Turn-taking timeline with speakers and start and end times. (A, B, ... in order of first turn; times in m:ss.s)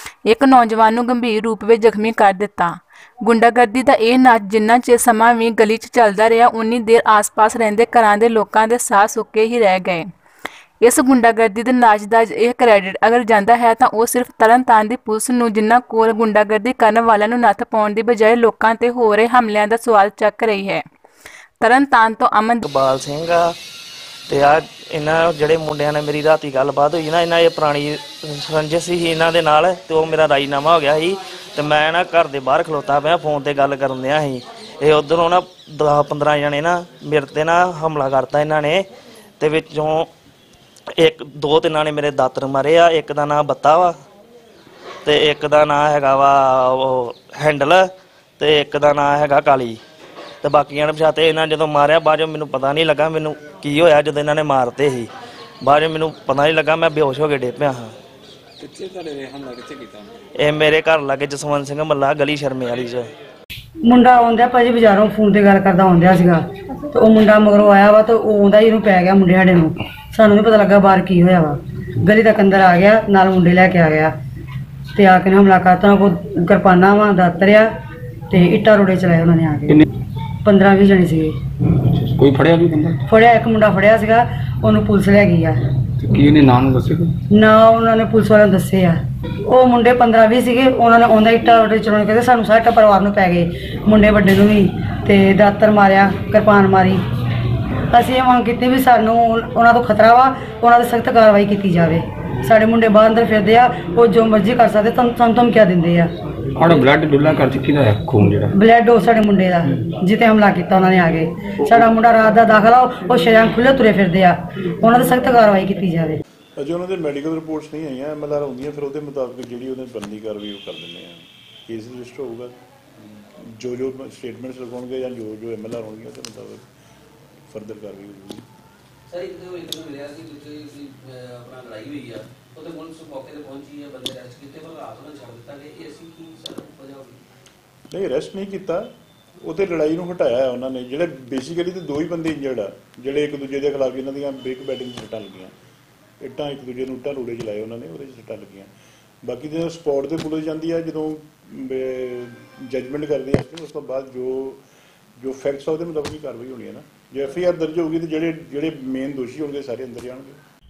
0:00.2-0:10.1 A
0:10.8-0:20.8 A
0:21.6-0:22.6 A
0:22.6-0:23.5 B
0:24.3-0:38.8 B
0:39.4-0:40.1 B
0:41.0-0:44.0 B
0:45.0-0:49.8 B
0:50.4-0:55.1 B
0:55.6-0:57.9 B
0:58.6-1:00.1 C
1:00.4-1:03.1 B
1:03.8-1:14.1 D
1:14.9-1:17.7 D
1:18.3-1:19.8 D
1:20.4-1:21.3 D
1:21.8-1:23.0 C
1:23.1-1:25.6 D
1:26.0-1:27.1 C
1:27.3-1:37.0 D
1:37.9-1:46.1 D
1:46.6-1:48.5 C
1:48.5-1:56.2 D
1:56.6-2:02.6 E
2:03.4-2:06.6 E
2:07.5-2:08.4 E
2:09.1-2:17.2 F
2:17.9-2:18.9 E
2:19.4-2:25.5 E
2:26.2-2:28.7 E
2:29.2-2:34.6 E
2:35.2-2:40.4 E